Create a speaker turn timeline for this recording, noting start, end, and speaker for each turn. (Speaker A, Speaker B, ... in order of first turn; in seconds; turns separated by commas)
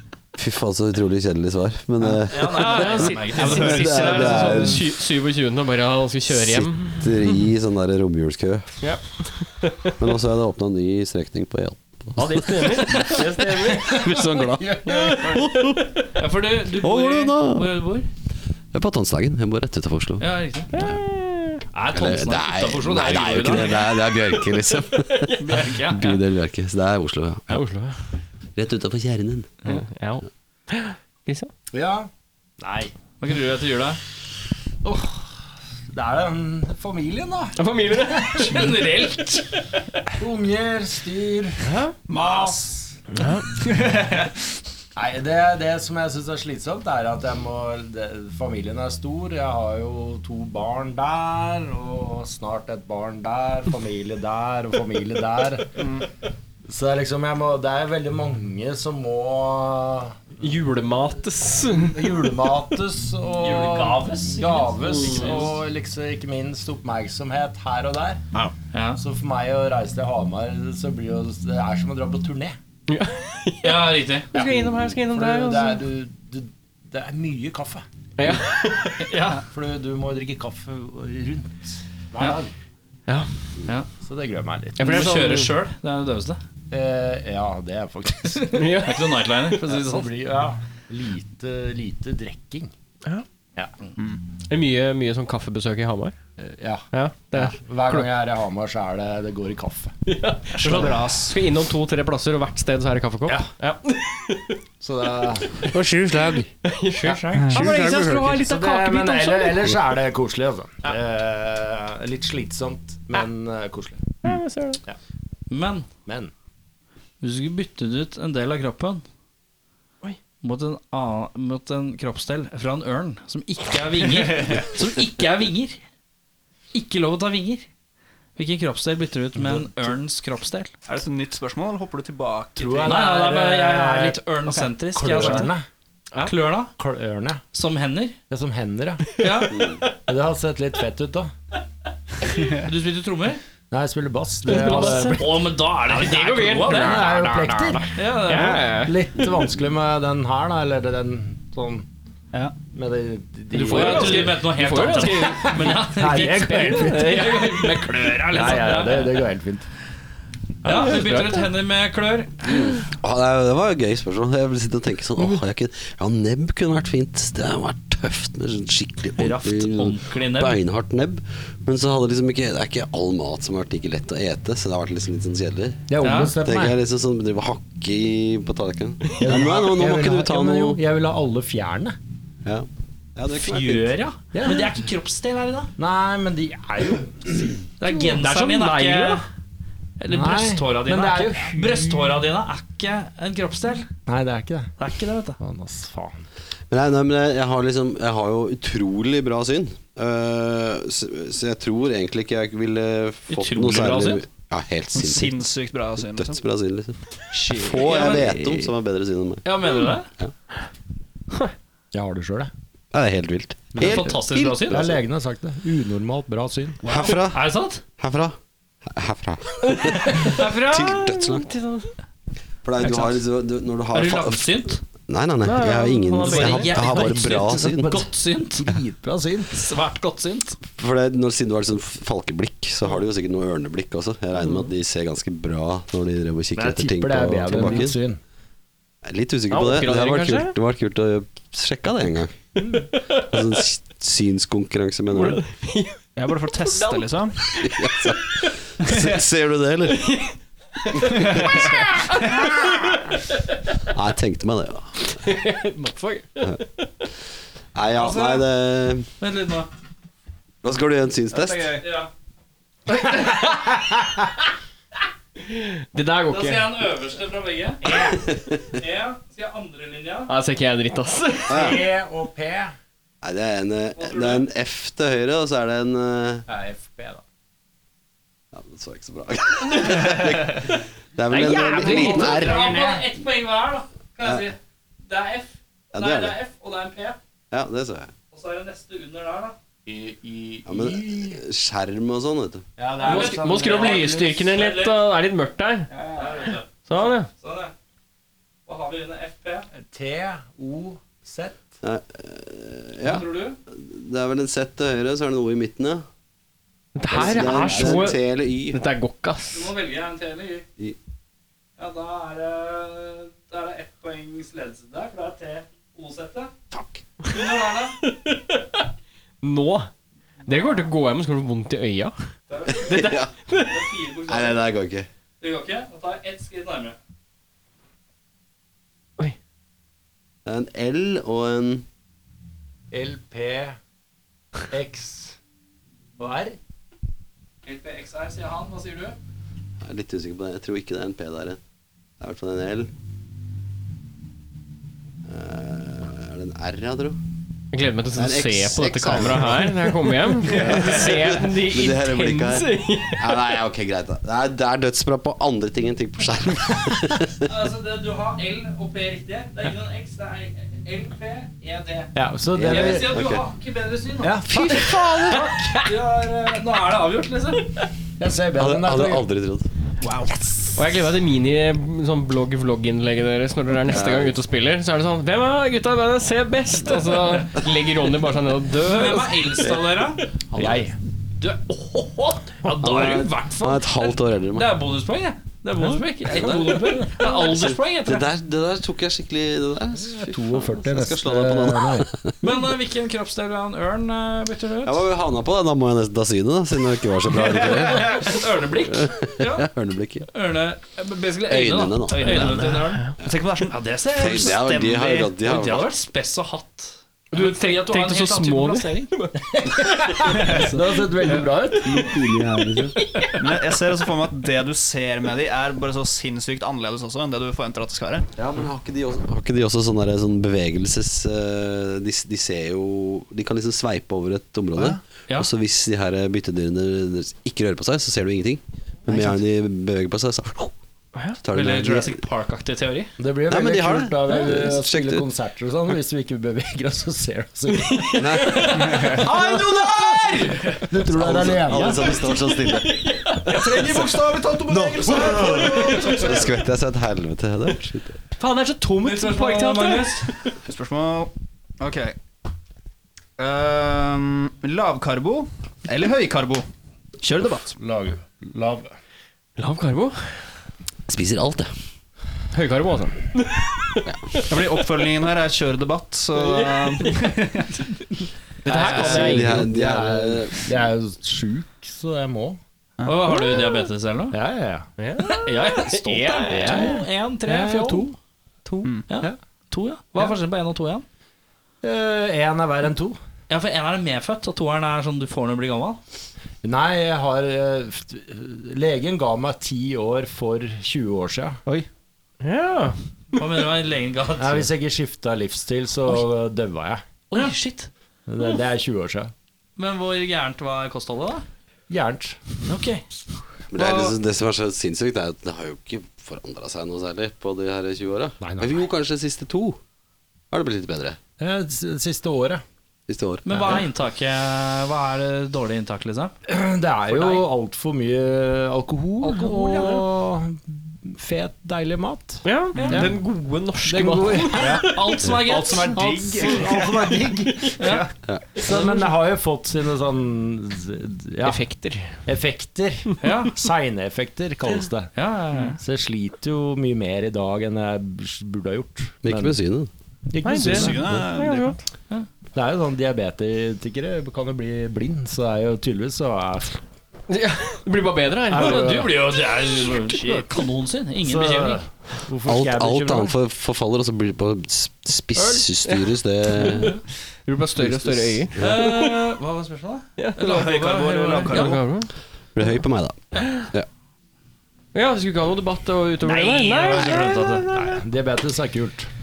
Speaker A: 0.4-4.9, Speaker B: 2.0-4.0, Speaker C: 2.5-7.3, Speaker D: 3.3-4.8, Speaker A: 6.3-8.8, Speaker C: 8.8-9.9, Speaker A: 10.0-13.2, Speaker C: 12.2-15.8, Speaker E: 12.9-15.5, Speaker A: 13.9-16.0, Speaker B: 16.1-18.1, Speaker A: 16.8-17.7, Speaker A: 18.7-21.0, Speaker B: 20.2-20.9, Speaker C: 20.7-21.6, Speaker B: 21.7-23.9, Speaker A: 21.9-27.6, Speaker C: 23.8-24.4, Speaker C: 25.1-25.5, Speaker B: 25.4-26.2, Speaker C: 27.5-28.0, Speaker A: 28.6-29.5, Speaker C: 29.6-31.5, Speaker E: 31.7-32.1, Speaker E: 32.6-32.9, Speaker B: 33.2-34.0, Speaker E: 34.8-35.3, Speaker E: 35.9-38.7, Speaker C: 37.6-38.7, Speaker B: 38.3-39.5, Speaker E: 40.2-43.0, Speaker C: 41.6-41.9, Speaker D: 42.1-42.6, Speaker C: 43.1-43.4, Speaker D: 43.9-44.1, Speaker E: 44.9-55.9, Speaker E: 56.7-60.2, Speaker C: 60.4-62.3, Speaker E: 61.7-68.2, Speaker B: 63.4-65.5, Speaker B: 68.7-69.0, Speaker E: 69.0-72.6, Speaker C: 72.9-75.8, Speaker B: 73.6-74.3, Speaker E: 74.3-77.8, Speaker C: 78.2-79.1, Speaker B: 79.0-79.4, Speaker E: 79.5-82.5, Speaker E: 84.0-85.1, Speaker B: 84.8-86.4, Speaker C: 84.8-85.5, Speaker E: 86.7-88.5, Speaker B: 88.3-90.1, Speaker C: 88.5-89.2, Speaker E: 89.6-92.7, Speaker C: 94.5-96.1, Speaker E: 96.4-99.9, Speaker C: 96.9-98.1, Speaker C: 100.1-104.6, Speaker D: 100.5-101.4, Speaker E: 103.2-103.5, Speaker E: 104.8-106.2, Speaker C: 105.6-109.7, Speaker B: 107.0-107.5, Speaker D: 107.3-108.4, Speaker E: 107.6-114.1, Speaker C: 114.2-114.8, Speaker B: 115.5-115.9, Speaker E: 116.0-116.3, Speaker B: 117.2-119.0, Speaker B: 120.4-125.8, Speaker B: 126.7-127.7, Speaker B: 128.3-130.7, Speaker D: 130.8-133.0, Speaker E: 132.6-134.2, Speaker B: 132.8-135.5, Speaker E: 134.9-135.6, Speaker B: 136.2-136.7, Speaker E: 136.8-137.4, Speaker B: 137.5-138.2, Speaker E: 138.3-141.3, Speaker B: 139.2-139.8, Speaker A: 139.5-139.8, Speaker D: 142.3-142.6, Speaker B: 142.4-143.4, Speaker E: 143.7-145.6, Speaker C: 144.4-149.0, Speaker B: 144.5-147.1, Speaker E: 146.6-151.8, Speaker B: 147.9-148.7, Speaker E: 152.7-159.7, Speaker C: 153.5-158.7, Speaker B: 153.6-159.2, Speaker B: 160.6-162.5, Speaker C: 160.6-161.5, Speaker A: 162.4-180.8, Speaker B: 169.2-170.6, Speaker E: 175.9-176.8, Speaker B: 176.0-176.3, Speaker E: 179.2-181.9, Speaker A: 182.4-183.9, Speaker B: 183.3-185.7, Speaker E: 184.3-184.7, Speaker E: 185.8-187.7, Speaker B: 187.8-189.2, Speaker C: 187.8-189.2, Speaker B: 190.0-193.9, Speaker E: 190.1-192.2, Speaker E: 194.1-194.7, Speaker B: 194.8-195.4, Speaker E: 195.4-196.2, Speaker A: 196.7-205.4, Speaker B: 203.3-204.2, Speaker D: 204.9-206.4, Speaker A: 206.0-207.0, Speaker B: 207.3-208.4, Speaker A: 207.5-209.4, Speaker D: 207.6-208.6, Speaker B: 209.4-210.1, Speaker E: 211.9-212.5, Speaker A: 212.9-215.0, Speaker E: 213.7-214.1, Speaker B: 213.8-214.8, Speaker E: 214.7-216.8, Speaker B: 216.8-217.8, Speaker A: 216.8-221.5, Speaker C: 219.7-221.9, Speaker A: 222.6-224.5, Speaker B: 222.8-223.2, Speaker B: 223.9-224.8, Speaker A: 225.1-228.0, Speaker C: 225.4-227.2, Speaker B: 226.2-228.7, Speaker E: 227.2-229.6, Speaker B: 229.5-230.6, Speaker A: 230.7-238.0, Speaker E: 236.5-238.2, Speaker A: 239.0-242.4, Speaker C: 239.5-240.5, Speaker C: 242.7-243.2, Speaker A: 243.2-245.4, Speaker C: 245.1-248.5, Speaker D: 246.2-247.4, Speaker A: 247.6-250.2, Speaker D: 248.8-249.2, Speaker C: 249.9-253.0, Speaker D: 251.0-252.7, Speaker A: 251.4-251.7, Speaker A: 253.9-255.2, Speaker C: 255.1-256.9, Speaker A: 257.7-259.1, Speaker B: 258.0-258.4, Speaker B: 259.2-259.7, Speaker A: 260.6-261.8, Speaker D: 261.3-261.8, Speaker B: 261.8-262.1, Speaker C: 262.9-263.9, Speaker C: 265.4-266.7, Speaker B: 266.3-270.3, Speaker A: 267.9-268.6, Speaker C: 270.3-271.8, Speaker A: 271.5-271.9, Speaker E: 271.5-272.7, Speaker A: 273.2-276.4, Speaker B: 273.9-274.5, Speaker E: 276.5-277.2, Speaker A: 278.5-282.6, Speaker C: 281.3-282.5, Speaker B: 281.3-287.2, Speaker E: 281.5-283.1, Speaker A: 285.9-286.4, Speaker A: 287.5-288.1, Speaker B: 288.3-289.6, Speaker E: 289.9-291.4, Speaker A: 290.6-292.6, Speaker E: 292.8-294.3, Speaker B: 293.0-295.0, Speaker C: 293.0-295.9, Speaker B: 295.9-297.7, Speaker C: 296.9-297.3, Speaker B: 298.6-299.7, Speaker E: 299.8-301.6, Speaker A: 301.8-306.0, Speaker B: 303.0-303.6, Speaker C: 306.9-309.7, Speaker A: 307.1-308.8, Speaker E: 307.6-307.9, Speaker B: 309.5-310.6, Speaker B: 311.8-316.5, Speaker A: 316.7-317.0, Speaker B: 317.2-318.0, Speaker C: 318.0-318.8, Speaker C: 319.4-319.9, Speaker B: 320.4-320.9, Speaker C: 320.5-322.1, Speaker B: 322.5-324.6, Speaker A: 322.7-323.3, Speaker C: 322.9-323.8, Speaker A: 324.3-325.1, Speaker B: 325.4-327.0, Speaker A: 330.4-331.8, Speaker E: 332.9-333.8, Speaker E: 334.7-335.4, Speaker E: 336.2-336.6, Speaker B: 337.6-339.2, Speaker A: 339.8-341.6, Speaker A: 342.2-342.9, Speaker A: 345.2-347.2, Speaker C: 347.7-353.5, Speaker A: 348.1-357.5, Speaker B: 357.4-367.7, Speaker E: 362.1-363.2, Speaker A: 362.5-363.4, Speaker E: 364.2-365.8, Speaker C: 364.8-365.9, Speaker E: 368.2-369.2, Speaker A: 368.5-369.7, Speaker B: 370.0-370.3, Speaker C: 370.7-379.7, Speaker A: 373.9-374.4, Speaker B: 378.8-380.3, Speaker A: 380.5-380.9, Speaker E: 380.5-380.9, Speaker B: 381.4-388.3, Speaker A: 382.6-384.8, Speaker A: 386.2-392.4, Speaker E: 390.0-392.1, Speaker B: 392.4-395.0, Speaker A: 394.8-400.3, Speaker B: 397.8-399.7, Speaker B: 400.3-403.1, Speaker A: 401.4-402.7, Speaker E: 402.3-402.9, Speaker C: 402.6-403.0, Speaker D: 403.2-405.3, Speaker B: 403.7-409.1, Speaker A: 404.1-405.9, Speaker C: 407.3-410.3, Speaker E: 409.4-412.9, Speaker D: 410.3-410.7, Speaker A: 411.9-412.9, Speaker C: 413.0-413.4, Speaker D: 413.4-418.3, Speaker A: 418.4-430.7, Speaker D: 429.1-429.4, Speaker A: 431.4-432.2, Speaker B: 431.5-433.1, Speaker E: 433.2-442.2, Speaker A: 433.5-435.2, Speaker A: 438.2-439.0, Speaker B: 438.4-440.8, Speaker D: 438.8-439.3, Speaker C: 439.1-440.2, Speaker A: 441.0-444.1, Speaker D: 441.7-442.1, Speaker C: 442.6-443.6, Speaker D: 443.5-446.5, Speaker A: 444.7-448.2, Speaker E: 445.3-445.8, Speaker C: 448.4-450.5, Speaker B: 449.0-450.3, Speaker D: 450.6-452.1, Speaker D: 453.4-456.6, Speaker D: 457.2-457.7, Speaker E: 457.7-458.9, Speaker C: 459.6-460.4, Speaker A: 461.1-461.7, Speaker C: 462.5-464.7, Speaker D: 464.5-467.9, Speaker C: 466.4-467.2, Speaker C: 468.6-469.7, Speaker D: 468.7-469.3, Speaker E: 468.7-472.6, Speaker A: 468.8-470.7, Speaker B: 473.0-474.4, Speaker E: 474.3-474.9, Speaker C: 475.0-476.9, Speaker B: 475.2-478.1, Speaker E: 476.4-478.1, Speaker C: 478.6-478.9, Speaker B: 479.1-481.0, Speaker E: 481.8-483.2, Speaker B: 483.5-486.0, Speaker E: 486.6-491.6, Speaker C: 492.4-493.0, Speaker B: 493.4-494.7, Speaker E: 494.4-497.0, Speaker B: 497.3-497.9, Speaker E: 498.3-499.3, Speaker B: 499.8-501.4, Speaker E: 501.9-502.4, Speaker B: 502.6-503.0, Speaker A: 503.7-509.8, Speaker B: 503.8-504.1, Speaker E: 508.4-508.8, Speaker A: 510.5-511.2, Speaker E: 511.4-512.6, Speaker A: 513.1-513.8, Speaker B: 513.4-516.3, Speaker E: 516.5-523.2, Speaker B: 517.1-517.4, Speaker B: 519.2-520.0, Speaker C: 519.4-520.0, Speaker C: 522.4-525.2, Speaker B: 522.8-523.1, Speaker E: 523.8-524.9, Speaker D: 524.6-524.9, Speaker B: 524.8-526.5, Speaker D: 525.4-527.0, Speaker E: 525.5-527.7, Speaker C: 526.4-526.7, Speaker C: 527.5-527.8, Speaker B: 527.8-528.0, Speaker D: 527.8-528.1, Speaker E: 528.5-531.6, Speaker C: 531.4-532.2, Speaker E: 532.2-535.1, Speaker B: 533.2-533.6, Speaker B: 535.1-535.8, Speaker E: 535.8-539.5, Speaker A: 539.2-539.9, Speaker E: 540.3-541.3, Speaker C: 540.4-541.8, Speaker D: 540.7-541.8, Speaker E: 542.5-546.8, Speaker C: 547.3-549.1, Speaker B: 548.5-551.8, Speaker E: 548.5-549.1, Speaker E: 551.2-553.4, Speaker A: 552.4-557.0, Speaker C: 555.4-556.9, Speaker C: 557.5-559.1, Speaker A: 557.8-558.8, Speaker B: 558.6-561.8, Speaker C: 560.2-560.5, Speaker D: 560.4-561.8, Speaker C: 561.4-562.1, Speaker A: 562.5-563.9, Speaker C: 564.9-568.0, Speaker B: 566.2-567.7, Speaker E: 567.7-569.1